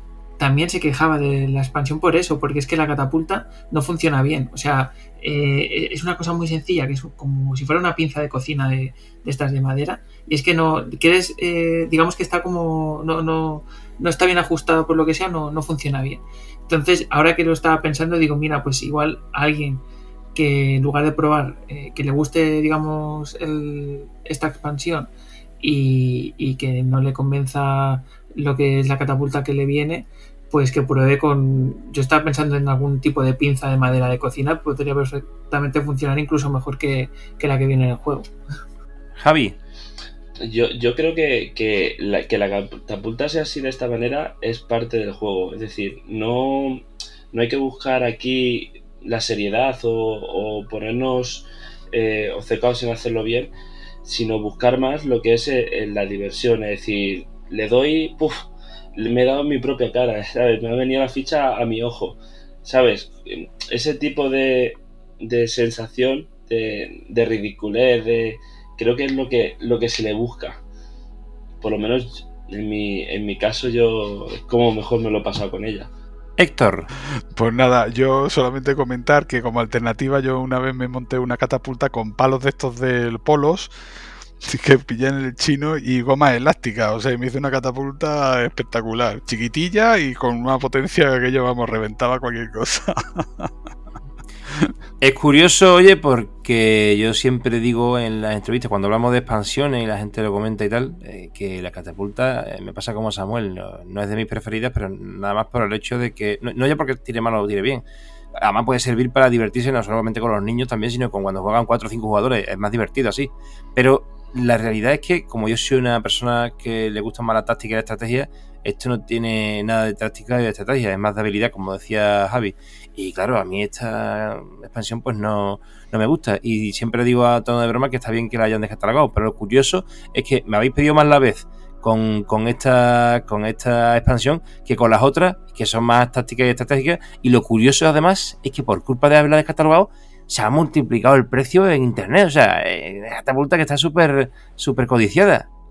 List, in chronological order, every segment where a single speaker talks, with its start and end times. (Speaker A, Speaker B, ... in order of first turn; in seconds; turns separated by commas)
Speaker A: 0.4-38.3, Speaker B: 39.2-39.5, Speaker C: 40.4-53.5, Speaker C: 54.0-70.6, Speaker C: 71.6-75.9, Speaker B: 76.4-76.9, Speaker D: 77.3-83.7, Speaker D: 84.4-93.5, Speaker B: 95.0-107.8, Speaker B: 108.4-145.4